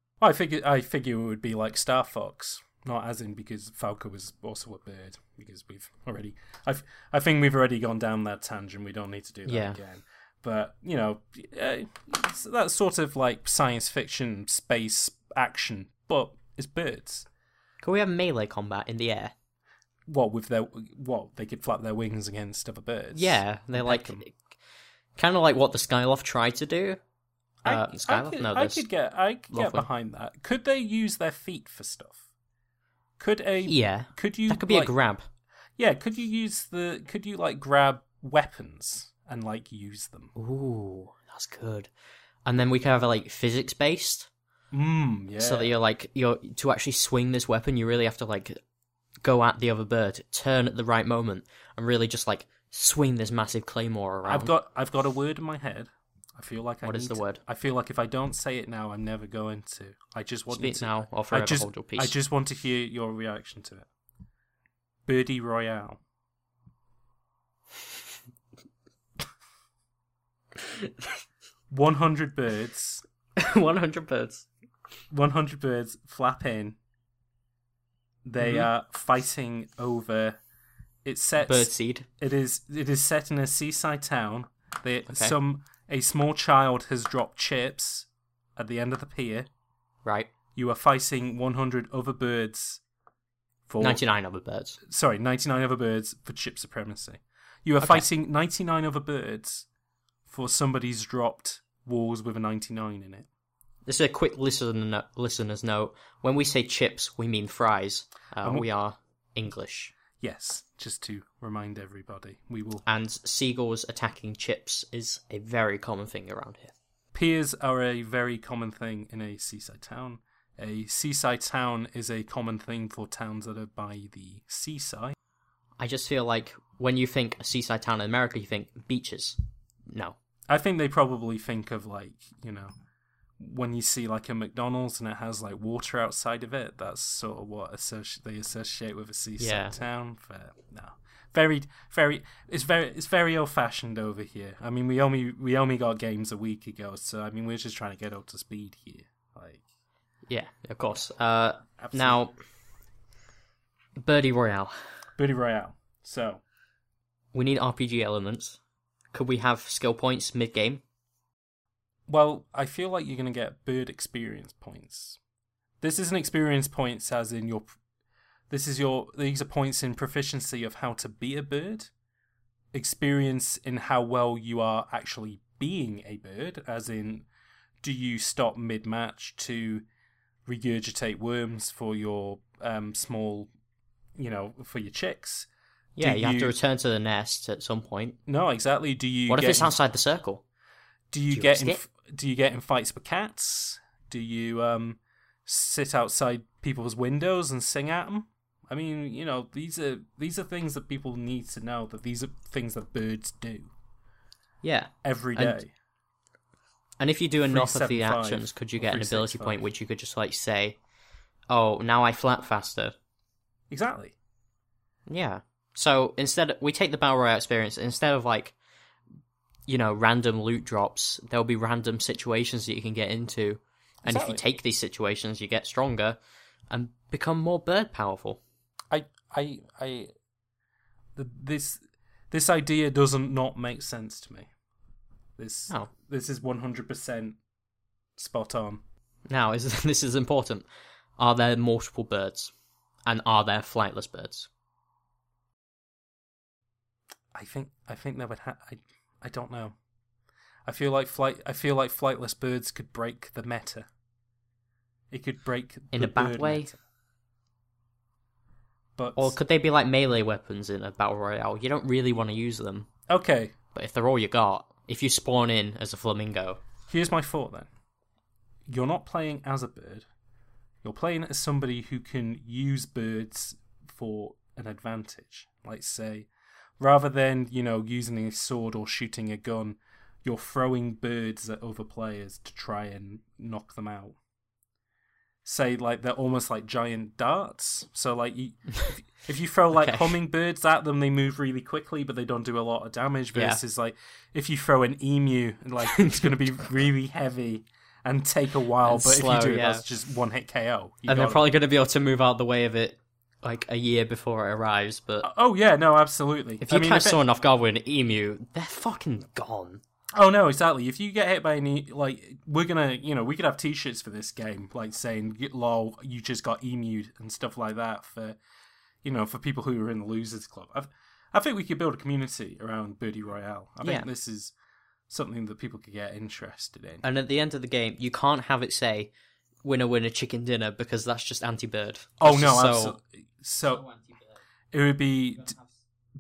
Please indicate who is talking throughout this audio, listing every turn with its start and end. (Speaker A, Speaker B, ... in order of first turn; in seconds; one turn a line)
Speaker A: 0.2-17.3
Speaker B: 9.5-9.8
Speaker B: 17.8-19.3
Speaker A: 20.1-24.2
Speaker B: 23.1-24.4
Speaker B: 25.2-27.0
Speaker A: 27.6-32.2
Speaker B: 27.6-28.9
Speaker B: 29.5-29.9
Speaker A: 33.2-34.9
Speaker B: 33.7-35.2
Speaker A: 35.8-40.3
Speaker B: 40.4-41.9
Speaker B: 42.5-44.3
Speaker A: 44.7-45.7
Speaker B: 45.4-48.6
Speaker B: 49.2-54.5
Speaker A: 54.3-63.9
Speaker B: 56.8-57.4
Speaker B: 60.5-62.1
Speaker A: 65.1-66.0
Speaker B: 70.6-71.2
Speaker A: 71.7-73.0
Speaker B: 73.4-74.5
Speaker A: 75.1-76.8
Speaker A: 78.2-80.4
Speaker B: 78.4-78.7
Speaker A: 81.0-89.5
Speaker B: 81.4-82.1
Speaker B: 85.1-85.3
Speaker A: 90.6-92.8
Speaker A: 93.7-94.0
Speaker B: 93.8-94.8
Speaker A: 94.9-99.7
Speaker B: 97.8-98.1
Speaker A: 100.3-103.3
Speaker B: 103.9-110.0
Speaker A: 110.2-112.8
Speaker B: 112.9-116.7
Speaker A: 117.1-125.2
Speaker B: 125.8-130.2
Speaker A: 130.5-132.7
Speaker A: 133.4-149.7
Speaker B: 139.4-139.8
Speaker B: 150.3-152.3
Speaker A: 151.8-152.2
Speaker B: 154.0-154.8
Speaker A: 155.2-156.4
Speaker B: 157.3-158.6
Speaker B: 159.1-160.8
Speaker A: 162.1-165.2
Speaker A: 165.8-167.7
Speaker A: 168.5-171.9
Speaker A: 172.7-177.3
Speaker A: 177.8-179.8
Speaker A: 180.5-183.5
Speaker A: 184.2-185.5
Speaker B: 186.0-188.2
Speaker A: 186.0-186.6
Speaker A: 188.3-189.7
Speaker B: 189.3-190.4
Speaker A: 191.1-203.7
Speaker B: 191.3-191.8
Speaker B: 204.6-205.6
Speaker A: 205.0-205.7
Speaker B: 207.0-210.8
Speaker A: 207.5-209.7
Speaker B: 211.5-212.9
Speaker A: 213.7-214.2
Speaker B: 215.1-218.6
Speaker B: 219.7-226.2
Speaker A: 224.1-224.4
Speaker B: 226.7-228.4
Speaker A: 228.9-230.1
Speaker A: 231.2-234.5
Speaker A: 235.4-237.4
Speaker A: 238.2-238.8
Speaker B: 239.3-240.7
Speaker B: 241.2-242.5
Speaker B: 243.1-244.5
Speaker A: 247.3-249.8
Speaker A: 250.7-253.9
Speaker A: 255.1-256.8
Speaker B: 255.9-256.7
Speaker A: 259.0-259.4
Speaker B: 259.2-262.9
Speaker A: 263.1-263.6
Speaker B: 263.7-266.6
Speaker A: 266.9-267.7
Speaker A: 268.7-270.1
Speaker A: 270.8-284.2
Speaker A: 285.4-301.5
Speaker B: 289.8-290.1
Speaker B: 293.3-293.6
Speaker B: 295.8-296.4
Speaker B: 298.8-299.9
Speaker B: 301.1-305.3
Speaker A: 305.2-307.2
Speaker B: 306.6-309.8
Speaker A: 310.1-318.4
Speaker A: 319.0-324.5
Speaker B: 323.8-324.1
Speaker A: 325.1-327.0
Speaker B: 327.0-329.1
Speaker B: 329.6-333.0
Speaker A: 332.2-333.8
Speaker B: 333.6-334.4
Speaker A: 334.7-335.5
Speaker B: 335.3-335.9